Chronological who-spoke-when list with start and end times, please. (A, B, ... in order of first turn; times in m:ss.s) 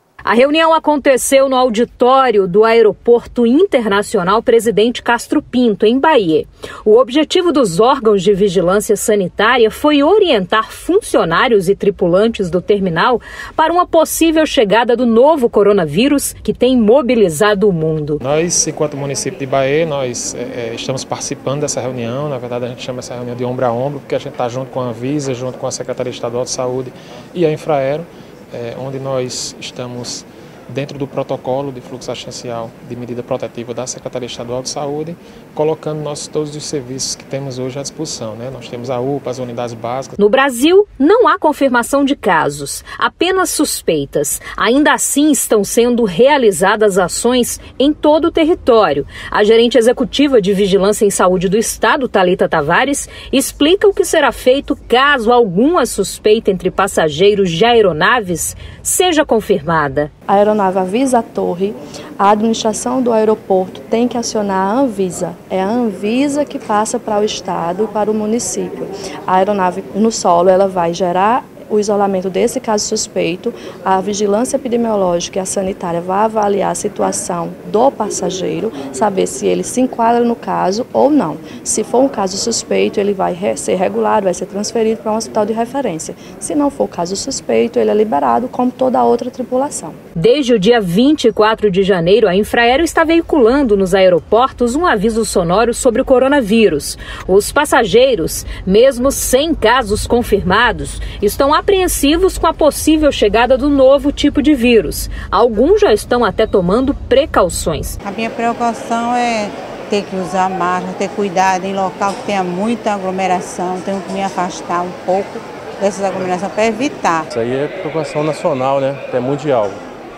0:00.2-0:18.2 A
0:18.2-0:40.1 B
0:40.2-1:00.1 A
1:00.3-1:30.0 C
1:30.2-1:48.0 A
1:48.0-1:57.2 D
1:57.3-1:59.8 E